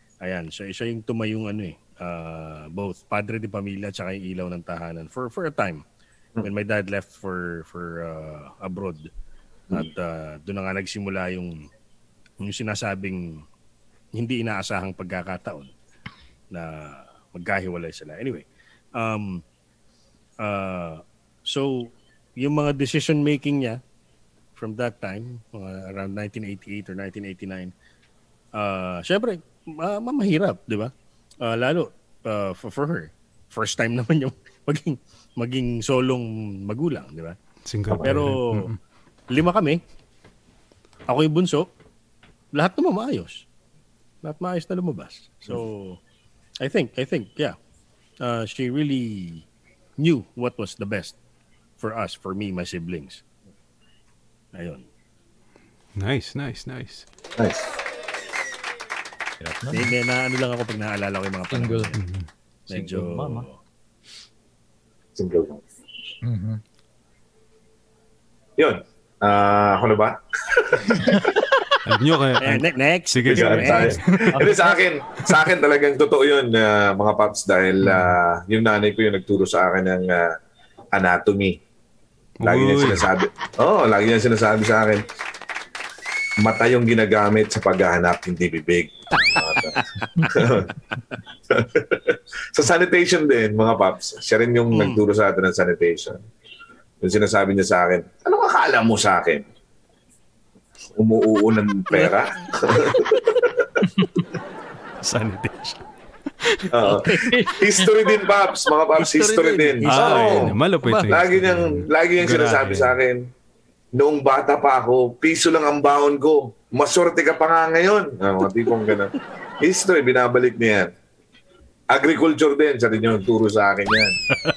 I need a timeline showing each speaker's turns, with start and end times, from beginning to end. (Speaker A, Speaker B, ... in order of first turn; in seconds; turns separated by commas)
Speaker A: 0.2-5.8, Speaker A: 6.4-9.1, Speaker A: 9.7-11.6, Speaker A: 12.4-13.4, Speaker A: 14.1-15.7, Speaker A: 16.5-18.4, Speaker A: 19.0-19.4, Speaker A: 20.4-23.8, Speaker A: 24.6-27.7, Speaker A: 28.5-30.9, Speaker A: 31.4-37.4, Speaker B: 37.6-38.8, Speaker C: 37.9-38.1, Speaker A: 38.0-38.7, Speaker A: 39.3-39.8, Speaker A: 41.1-41.7, Speaker A: 42.5-43.4, Speaker A: 44.2-46.0, Speaker A: 46.6-47.5, Speaker A: 48.2-49.4, Speaker A: 50.0-51.1, Speaker A: 51.8-53.2, Speaker A: 54.5-54.8, Speaker B: 56.0-57.1, Speaker C: 57.4-57.7, Speaker D: 59.4-59.9, Speaker A: 59.7-62.0, Speaker D: 61.5-61.9, Speaker B: 61.9-62.3, Speaker A: 62.7-63.6, Speaker D: 62.7-63.4, Speaker C: 65.2-65.6, Speaker D: 66.2-66.6, Speaker C: 68.6-70.8, Speaker D: 71.0-71.4, Speaker B: 71.8-74.4, Speaker A: 72.4-73.9, Speaker C: 73.3-80.3, Speaker D: 74.3-74.8, Speaker B: 77.8-78.2, Speaker C: 80.9-81.6, Speaker B: 82.4-83.1, Speaker C: 82.4-85.0, Speaker C: 86.4-90.7, Speaker A: 89.4-90.2, Speaker C: 91.5-96.2, Speaker A: 94.7-95.0, Speaker C: 97.0-99.4, Speaker C: 101.0-103.7, Speaker B: 105.0-105.8, Speaker B: 106.4-106.7, Speaker C: 106.7-110.5, Speaker A: 106.8-107.2, Speaker D: 107.3-107.9, Speaker A: 109.0-111.1, Speaker B: 109.8-112.9, Speaker C: 111.1-113.3, Speaker C: 113.9-120.9, Speaker C: 121.9-124.2